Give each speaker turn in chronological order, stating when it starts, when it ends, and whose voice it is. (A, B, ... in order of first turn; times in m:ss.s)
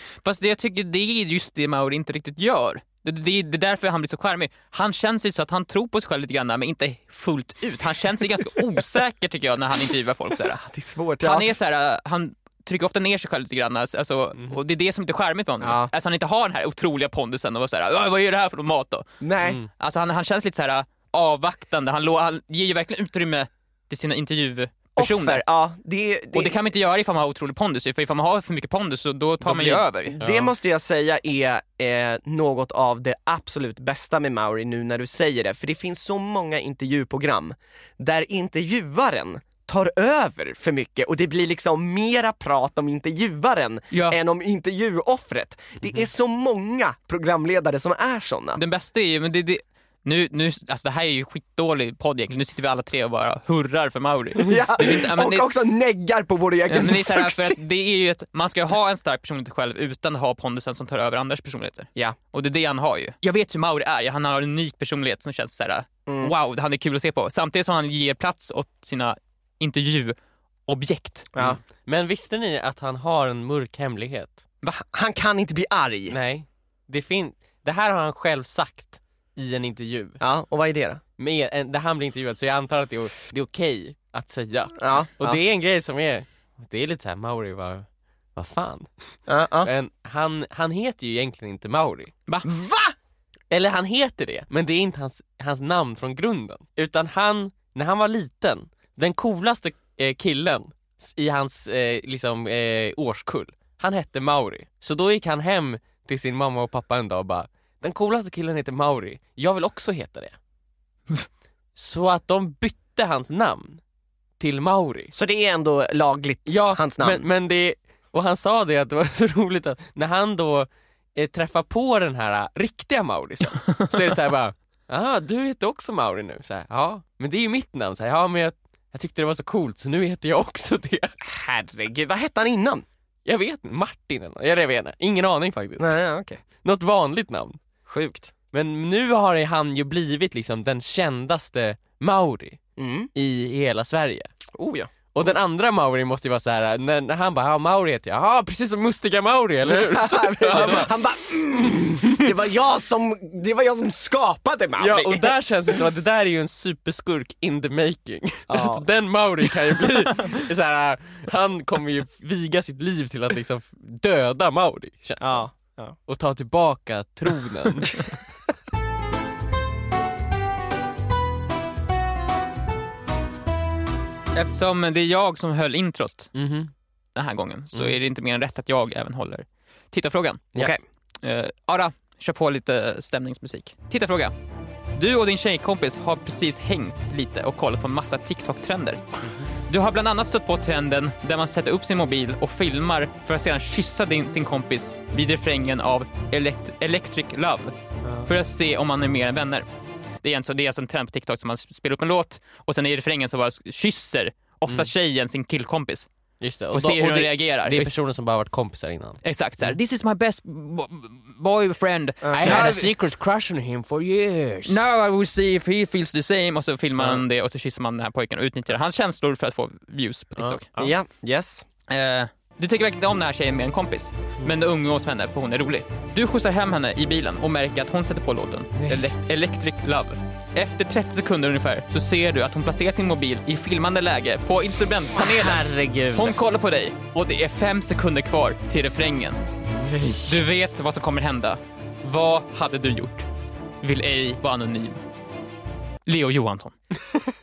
0:00.2-0:10.6 A
0:10.4-0:11.5 B
0:11.2-0:19.1 A
0:15.6-0:15.9 B
0:19.2-0:19.6 B
0:19.6-0:25.4 A
0:25.0-0:26.6 B
0:26.3-0:30.2 A
0:29.4-0:30.5 C
0:30.1-0:48.6 B
0:43.9-0:44.2 A
0:48.6-0:55.5 A
0:54.4-0:57.6 B
0:56.7-1:10.2 A
1:06.1-1:06.3 B
1:10.7-1:11.3 A
1:11.4-1:14.4 C
1:14.6-1:16.1 B
1:16.1-1:20.2 C
1:20.2-1:21.0 B
1:21.2-1:28.9 C
1:24.8-1:25.4 B
1:29.3-1:29.7 B
1:29.6-1:32.1 C
1:32.4-1:32.9 B
1:33.5-1:50.4 C
1:51.7-1:53.8 C
1:54.4-1:55.1 C
1:55.1-1:57.2 B
1:56.4-2:11.1 C
2:11.2-2:12.8 B
2:13.2-2:16.0 C
2:15.8-2:16.4 B
2:16.6-2:17.6 C
2:17.8-2:18.3 B
2:18.5-2:22.6 C
2:22.8-2:23.1 B
2:23.1-2:24.3 C
2:24.5-2:24.9 B
2:25.1-2:30.9 C
2:29.6-2:35.3 B
2:30.5-2:30.8 A
2:31.7-2:32.3 C
2:34.8-2:45.4 C
2:38.5-2:38.8 B
2:45.2-2:46.0 B
2:46.1-2:48.1 C
2:54.3-2:56.3 A
2:56.3-2:56.7 C
2:57.1-3:00.6 A
3:01.2-3:04.3 A
3:04.9-3:09.0 A
3:09.2-3:09.5 C
3:09.7-3:17.7 A
3:18.0-3:18.3 C
3:18.2-3:19.6 A
3:20.2-3:26.1 A
3:26.4-3:29.8 C
3:26.7-3:27.9 A
3:29.2-3:32.9 A
3:32.2-3:32.7 B
3:32.3-3:34.8 C
3:34.7-3:40.7 A
3:40.4-3:40.9 C
3:40.8-3:41.6 B
3:41.9-3:59.4 A
3:48.8-3:49.1 C
3:55.2-3:56.3 C
3:59.8-4:00.4 C
4:00.2-4:03.2 A
4:03.8-4:05.0 A
4:06.1-4:06.7 A